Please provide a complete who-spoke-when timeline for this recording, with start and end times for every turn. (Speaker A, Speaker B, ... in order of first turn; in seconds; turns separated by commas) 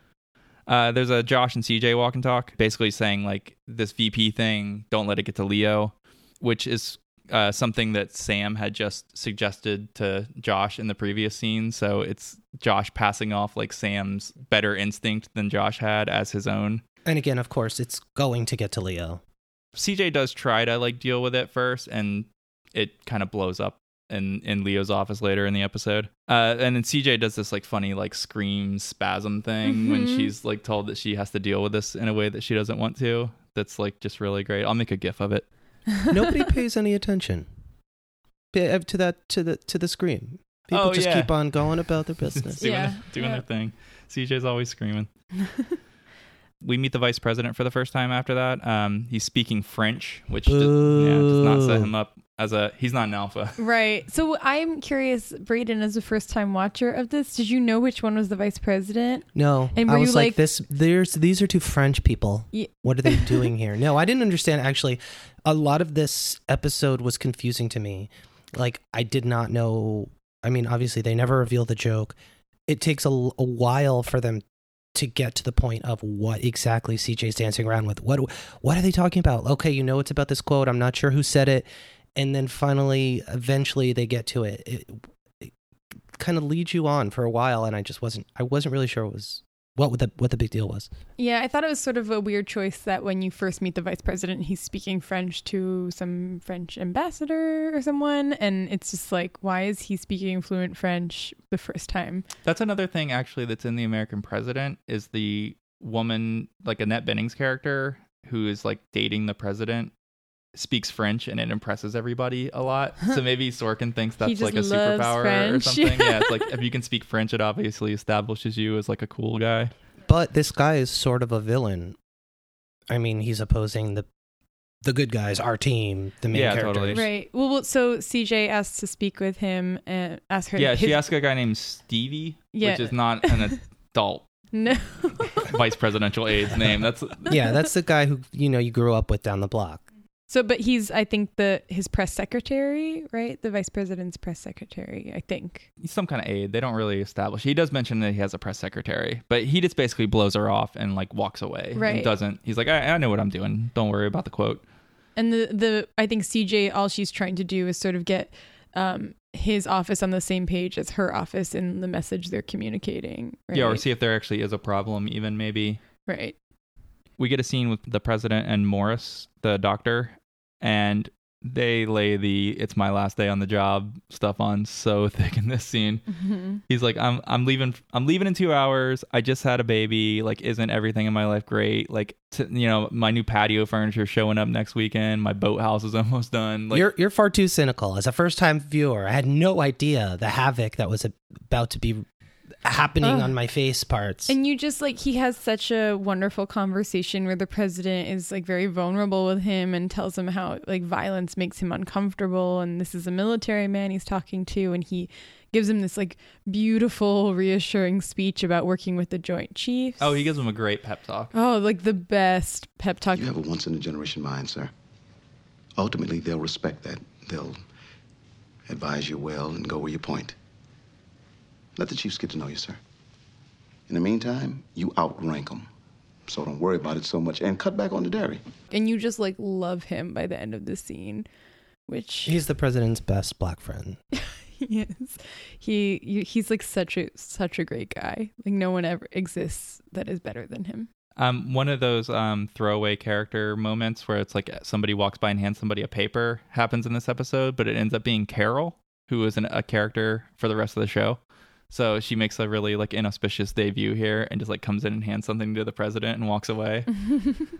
Speaker A: 0.7-16.8, Speaker B: 17.0-19.2, Speaker A: 19.7-35.5, Speaker C: 29.7-30.3, Speaker B: 36.1-37.5, Speaker B: 38.5-42.6, Speaker A: 40.7-41.3, Speaker A: 42.3-45.1, Speaker C: 42.6-43.4, Speaker C: 45.4-45.7, Speaker A: 46.6-53.6, Speaker B: 50.5-51.9, Speaker C: 53.6-60.4, Speaker B: 59.3-72.2, Speaker C: 62.5-63.5, Speaker B: 72.7-74.4, Speaker B: 74.9-85.5, Speaker B: 86.1-90.9, Speaker C: 91.2-102.2, Speaker A: 102.4-109.9, Speaker A: 110.5-119.7, Speaker C: 114.2-116.5, Speaker B: 120.0-122.0, Speaker B: 122.9-124.0, Speaker B: 124.8-127.0, Speaker A: 126.3-127.0, Speaker C: 126.9-131.0, Speaker A: 130.6-134.3, Speaker C: 132.5-133.6, Speaker C: 134.5-135.4, Speaker A: 135.4-137.4, Speaker B: 137.3-139.8, Speaker C: 140.3-145.7, Speaker A: 145.8-154.6, Speaker C: 151.7-152.1, Speaker C: 155.2-163.8, Speaker A: 163.5-165.8, Speaker C: 166.1-166.3, Speaker A: 167.2-176.0, Speaker C: 176.1-176.6, Speaker A: 176.7-186.9, Speaker B: 186.7-192.0, Speaker B: 192.6-194.3, Speaker C: 193.0-193.3, Speaker C: 194.3-210.2, Speaker A: 210.0-211.3, Speaker C: 211.3-213.3, Speaker D: 213.1-214.7, Speaker D: 215.8-217.6, Speaker D: 218.7-220.3, Speaker D: 221.8-222.8, Speaker D: 223.9-225.7, Speaker D: 226.3-228.4, Speaker C: 228.7-231.2, Speaker C: 231.9-232.4, Speaker B: 232.2-234.0, Speaker C: 234.2-240.9, Speaker A: 241.2-251.2, Speaker A: 251.7-256.9, Speaker C: 257.1-257.3